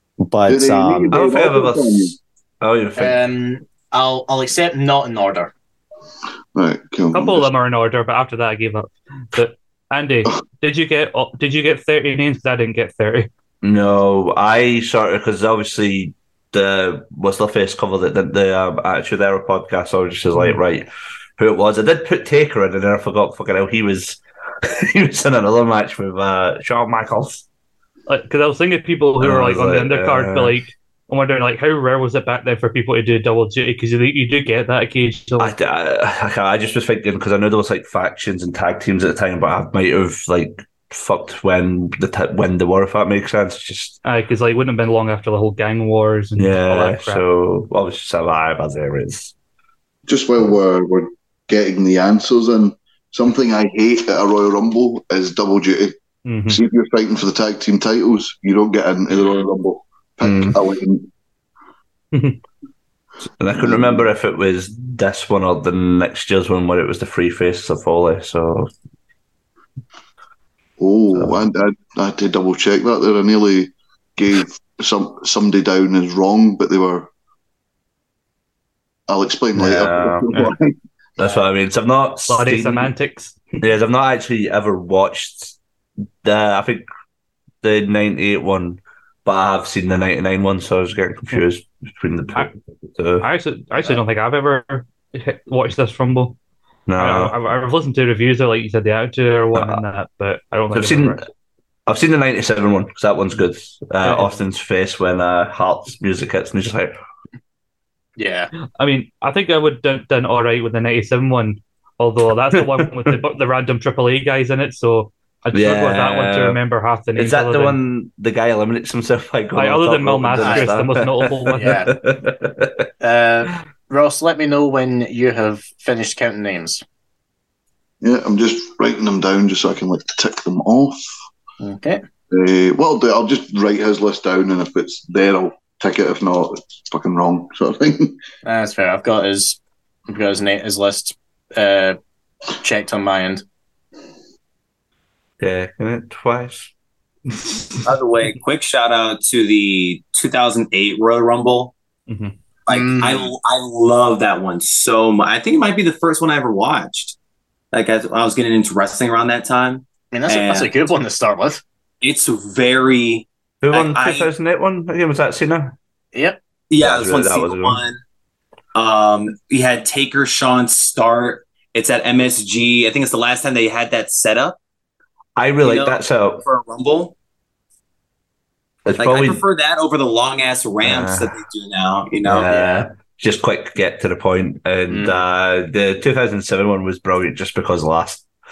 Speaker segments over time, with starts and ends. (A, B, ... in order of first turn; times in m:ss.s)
0:00.2-0:01.1 A
0:00.5-0:02.2 B
0:01.1-0:03.2 C
0:03.0-0:05.5 D
0:06.5-0:07.5 B
0:07.1-0:13.3 E
0:13.6-0:27.4 C
0:28.1-0:35.5 E
0:29.2-0:30.6 C
0:35.4-0:44.0 C
0:44.0-0:47.2 E
0:46.4-0:49.3 C
0:50.1-0:56.0 B
0:56.2-0:56.6 E
0:56.5-1:01.1 B
1:00.2-1:00.6 C
1:02.1-1:02.4 E
1:03.4-1:08.7 C
1:03.6-1:04.1 B
1:10.8-1:17.1 B
1:19.1-1:20.7 B
1:19.6-1:20.5 C
1:21.2-1:22.9 C
1:22.3-1:23.4 E
1:23.6-1:25.6 C
1:26.2-1:26.8 C
1:27.6-1:33.3 C
1:33.2-1:36.4 E
1:36.9-1:37.3 C
1:37.0-1:41.2 E
1:39.5-1:39.8 C
1:40.7-1:41.2 C
1:41.9-1:47.0 C
1:44.0-1:44.3 E
1:48.2-1:48.5 D
1:48.8-1:57.8 E
1:55.5-1:56.6 C
1:57.2-2:02.9 C
1:59.5-2:01.8 E
2:00.4-2:00.7 D
2:01.6-2:01.9 D
2:03.0-2:06.8 D
2:08.0-2:11.0 B
2:11.6-2:12.0 D
2:12.3-2:18.2 B
2:18.4-2:22.0 D
2:22.6-2:23.4 D
2:25.4-2:26.7 C
2:27.3-2:27.8 E
2:27.8-2:31.7 A
2:32.1-2:32.3 E
2:32.7-2:37.2 A
2:32.7-2:33.3 D
2:37.7-2:40.7 A
2:40.1-2:41.6 D
2:42.0-2:44.3 A
2:43.6-2:45.7 C
2:46.1-2:46.4 D
2:46.7-2:48.0 A
2:46.8-2:47.8 C
2:48.7-2:54.6 A
2:55.4-2:56.4 C
2:55.6-2:57.1 A
2:58.8-2:59.4 C
2:59.0-3:02.5 A
3:00.8-3:01.4 C
3:02.2-3:08.2 C
3:02.4-3:02.8 D
3:04.9-3:05.2 D